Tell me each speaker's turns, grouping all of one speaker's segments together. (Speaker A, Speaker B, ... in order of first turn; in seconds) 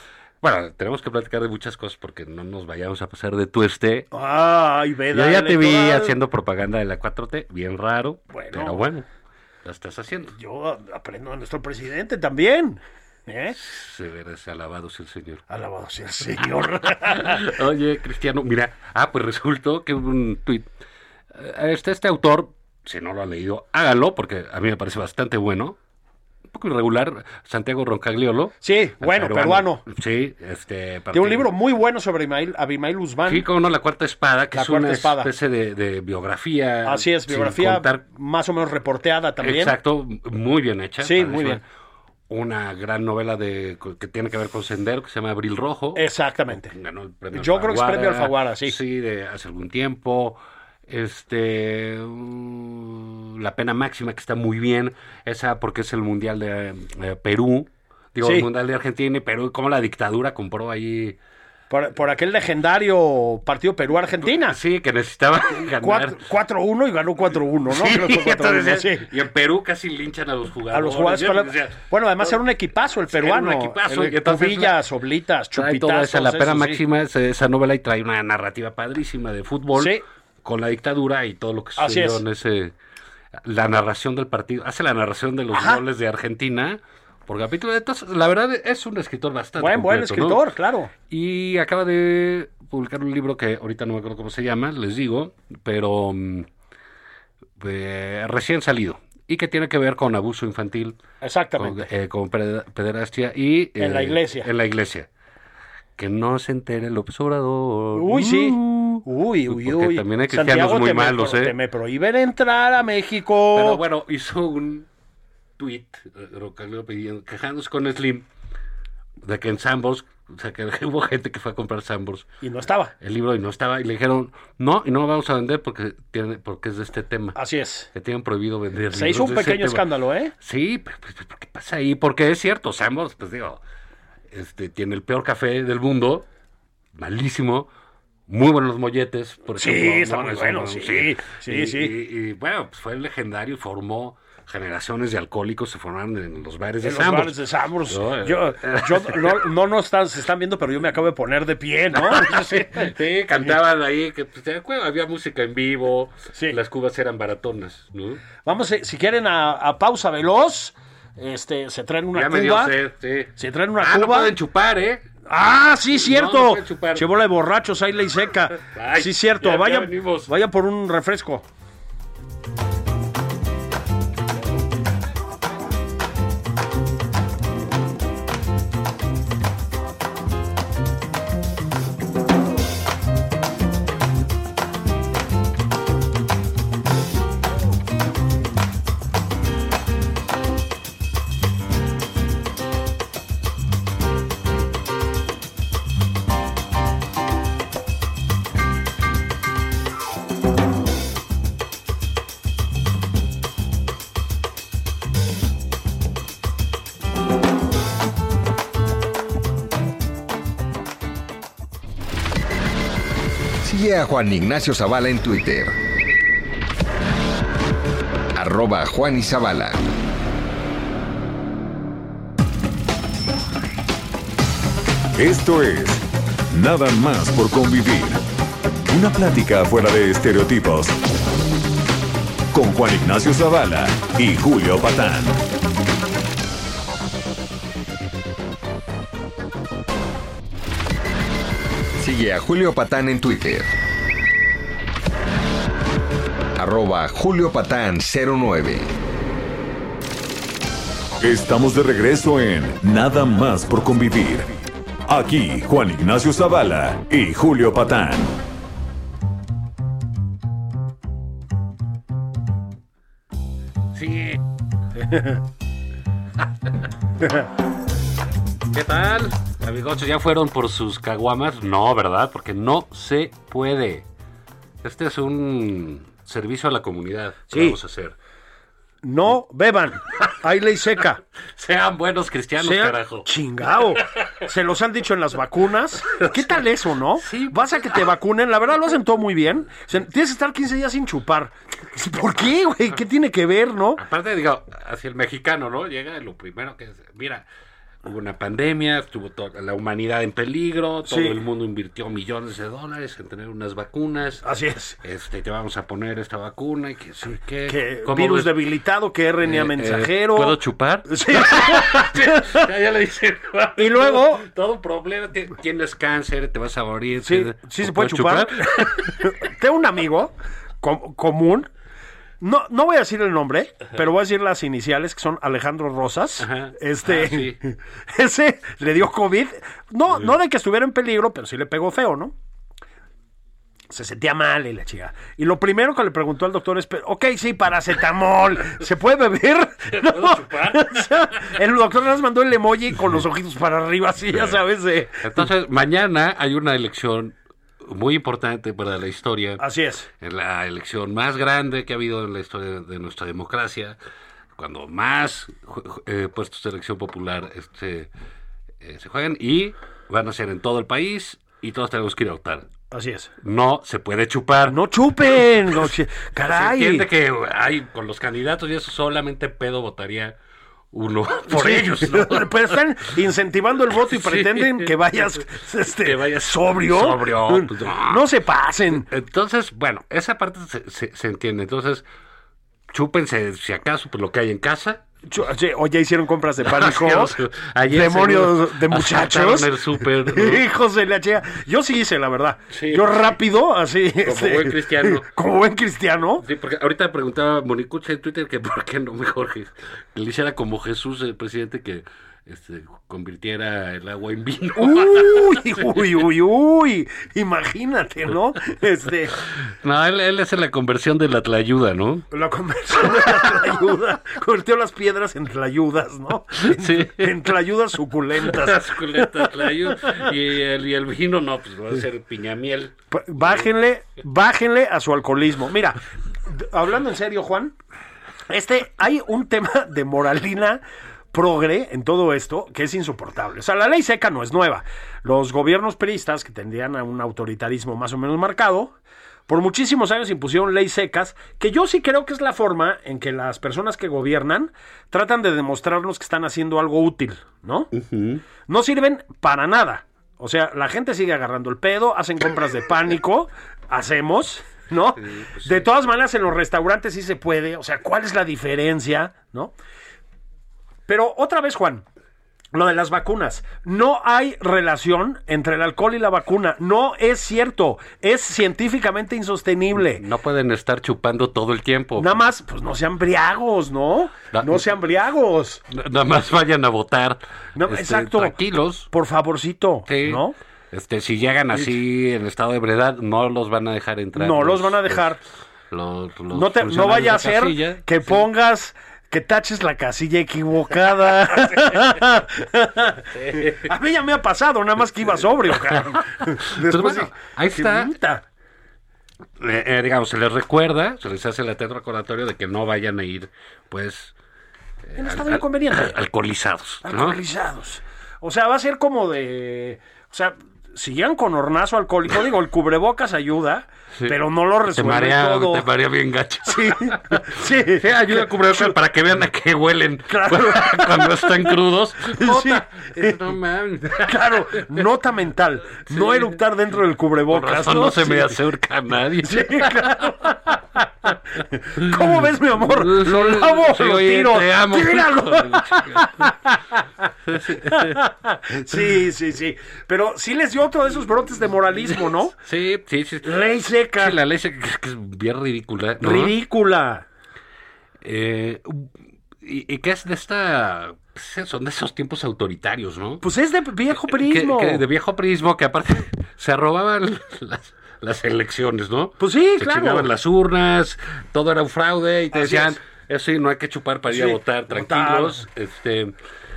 Speaker A: 0.4-4.1, 5.1-9.1, 9.6-10.3, 13.5-15.4, 16.9-20.7, 21.3-25.8, 26.5-31.5, 33.3-38.0, 39.4-41.6, 42.3-61.2, 64.2-66.2, 67.7-72.4, 73.1-74.8, 75.5-82.7, 83.4-90.4, 91.1-96.5, 97.6-101.0, 101.6-105.1, 106.0-111.5, 113.5-114.9, 115.6-118.3, 119.2-122.3, 123.0-127.3, 127.9-129.8, 130.4-133.6, 134.3-136.2, 136.9-137.7, 138.3-149.5, 151.9-158.2, 162.1-165.1, 165.9-167.1, 168.6-170.3, 263.9-264.4, 268.7-274.1, 274.8-278.1, 281.5-283.3, 286.1-286.6, 287.2-288.1, 294.0-297.4, 298.0-304.4, 305.0-308.6, 309.4-319.3, 326.4-327.6, 339.9-341.5, 345.2-349.6, 350.2-354.0, 354.6-358.1, 358.8-362.7, 363.4-364.8, 366.4-370.4, 370.9-372.8, 374.0-374.9, 375.8-378.2, 378.9-382.0, 382.9-385.0, 386.6-390.6, 392.7-393.4, 394.2-395.3, 396.4-406.2, 409.8-412.3, 413.0-413.5, 416.6-417.5, 418.4-423.7, 447.9-448.4, 455.2-455.8, 470.0-472.4, 474.5-474.8, 475.9-479.1, 480.1-485.2, 485.9-488.5, 493.3-493.9, 495.7-498.1, 499.6-504.3, 505.1-507.4, 514.2-525.0, 526.1-526.6, 527.5-530.3, 532.8-536.5, 537.5-538.2, 542.6-543.6, 544.2-546.5, 548.2-549.1, 549.6-553.4, 554.1-566.3
Speaker B: 4.1-6.1, 8.3-8.8, 10.4-13.6, 15.5-17.4, 28.6-29.8, 31.1-33.5, 34.5-35.3, 36.8-39.7, 41.0-41.6, 45.9-46.7, 47.3-48.8, 58.2-58.5, 61.7-64.6, 65.8-69.1, 70.7-76.8, 79.8-80.0, 81.8-82.2, 85.5-85.8, 89.6-90.9, 101.2-101.9, 103.8-104.5, 107.9-113.8, 122.4-122.9, 127.3-127.9, 128.9-130.3, 139.6-141.9, 146.8-152.9, 158.4-162.7, 163.4-164.3, 165.3-171.4, 265.0-265.4, 277.5-277.8, 279.0-281.2, 282.6-294.0, 301.0-301.4, 304.4-305.0, 307.7-312.6, 313.8-314.4, 317.2-321.7, 322.4-332.3, 333.9-345.4, 349.6-350.1, 362.9-363.3, 364.7-367.1, 371.5-379.1, 385.3-387.4, 387.9-396.4, 404.8-409.4, 412.3-420.2, 423.1-427.8, 428.5-430.8, 431.3-438.9, 439.5-447.9, 448.7-459.7, 461.1-462.1, 462.7-470.2, 472.2-475.8, 477.8-478.6, 479.1-480.5, 484.4-485.4, 486.5-498.4, 505.2-506.1, 507.0-515.9, 516.6-518.9, 520.3-523.4, 524.1-528.5, 529.4-542.5, 543.4-544.3, 546.2-547.2, 553.4-555.0, 559.4-560.3, 562.5-563.0, 564.3-565.6
Speaker C: 213.6-215.8, 218.3-219.8, 242.0-243.7, 246.6-248.9
Speaker D: 225.2-228.2, 228.8-231.0, 232.5-235.4, 251.2-258.4